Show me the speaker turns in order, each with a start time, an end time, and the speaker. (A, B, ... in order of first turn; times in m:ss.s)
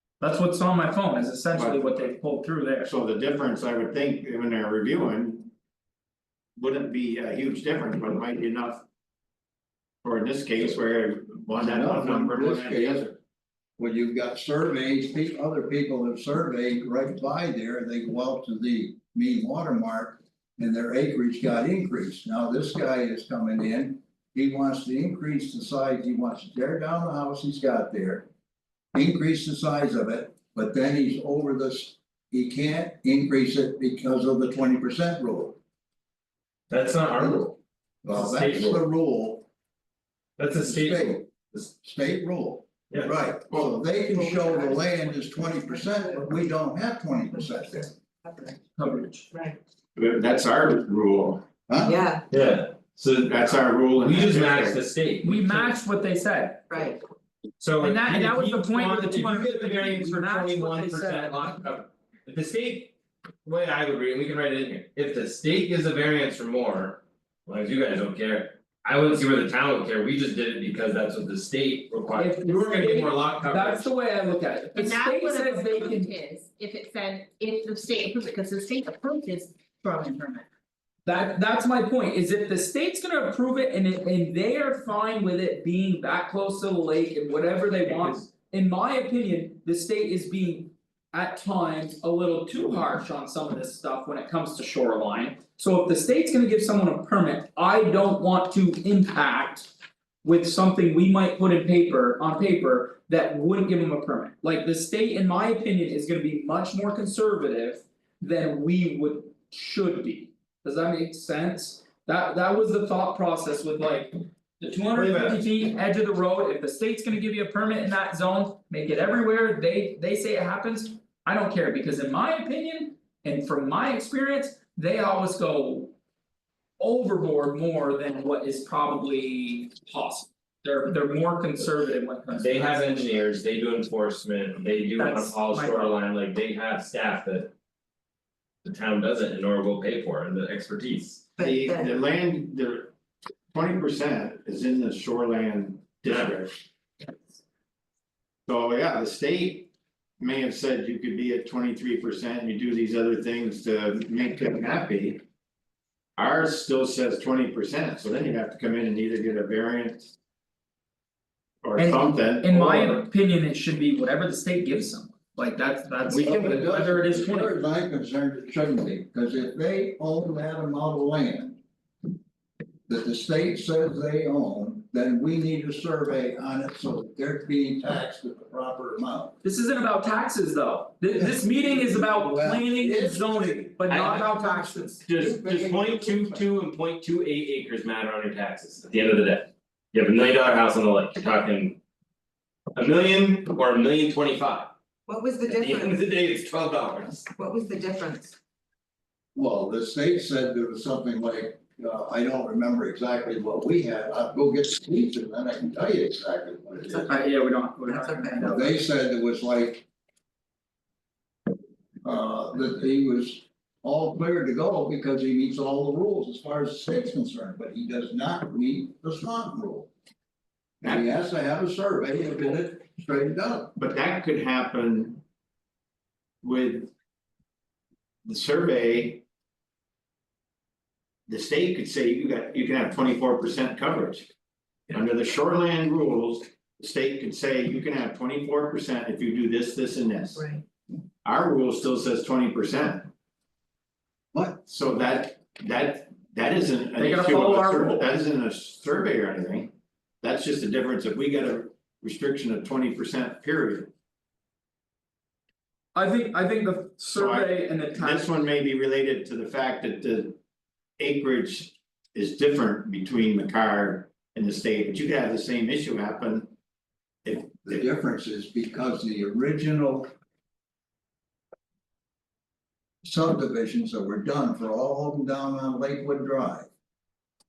0:00.2-0:02.9 A
0:01.5-0:02.1 B
0:02.8-0:05.5 B
0:06.6-0:08.8 B
0:10.0-0:13.2 B
0:11.6-0:13.1 C
0:13.8-0:28.3 C
0:28.9-0:35.6 C
0:36.7-0:38.8 D
0:38.0-0:39.5 C
0:40.4-0:41.7 D
0:40.5-0:41.2 C
0:41.8-0:47.9 C
0:42.9-0:43.2 D
0:44.1-0:45.0 E
0:45.7-0:46.2 E
0:47.8-0:48.6 E
0:48.8-0:49.3 A
0:49.3-0:49.6 E
0:50.0-0:51.4 B
0:51.7-0:52.0 C
0:51.8-0:52.3 E
0:52.3-0:53.4 D
0:53.3-0:54.8 B
0:54.0-0:55.8 D
0:55.2-0:56.7 A
0:56.7-0:57.0 E
0:57.6-1:02.9 D
0:57.8-1:01.6 A
1:03.4-1:13.9 D
1:12.1-1:16.1 A
1:14.8-1:20.4 F
1:21.0-1:39.7 A
1:40.2-2:05.9 A
1:54.9-1:55.4 D
2:06.8-2:12.8 A
2:12.3-2:17.5 D
2:15.0-2:15.9 A
2:18.6-2:21.3 D
2:21.4-2:22.0 E
2:21.4-2:22.9 B
2:23.5-2:26.6 B
2:26.1-2:26.3 D
2:28.5-2:35.2 B
2:36.2-2:40.1 B
2:41.6-2:43.1 B
2:41.8-2:47.6 A
2:46.1-2:51.6 C
2:52.9-2:59.4 C
2:59.4-3:05.0 A
3:01.1-3:03.7 C
3:03.9-3:11.8 D
3:05.1-3:06.4 C
3:12.8-3:14.8 D
3:15.1-3:16.0 E
3:15.5-3:17.3 D
3:17.2-3:18.4 E
3:19.4-3:27.1 C
3:26.8-3:27.1 E
3:27.1-3:28.8 A
3:27.9-3:28.6 E
3:28.4-3:29.8 C
3:32.0-3:39.9 C
3:40.8-3:43.7 C
3:43.8-3:45.2 B
3:46.4-3:46.9 B
3:48.2-3:49.2 B
3:51.3-3:54.3 B
3:54.9-4:00.5 B
4:00.4-4:00.6 E
4:01.2-4:03.1 B
4:04.3-4:04.6 C
4:04.7-4:09.7 B
4:07.0-4:08.1 A
4:10.2-4:13.9 B
4:15.9-4:18.3 A
4:17.1-4:20.4 B
4:21.0-4:26.5 B
4:27.2-4:27.8 B
4:27.6-4:30.1 C
4:33.0-4:36.7 C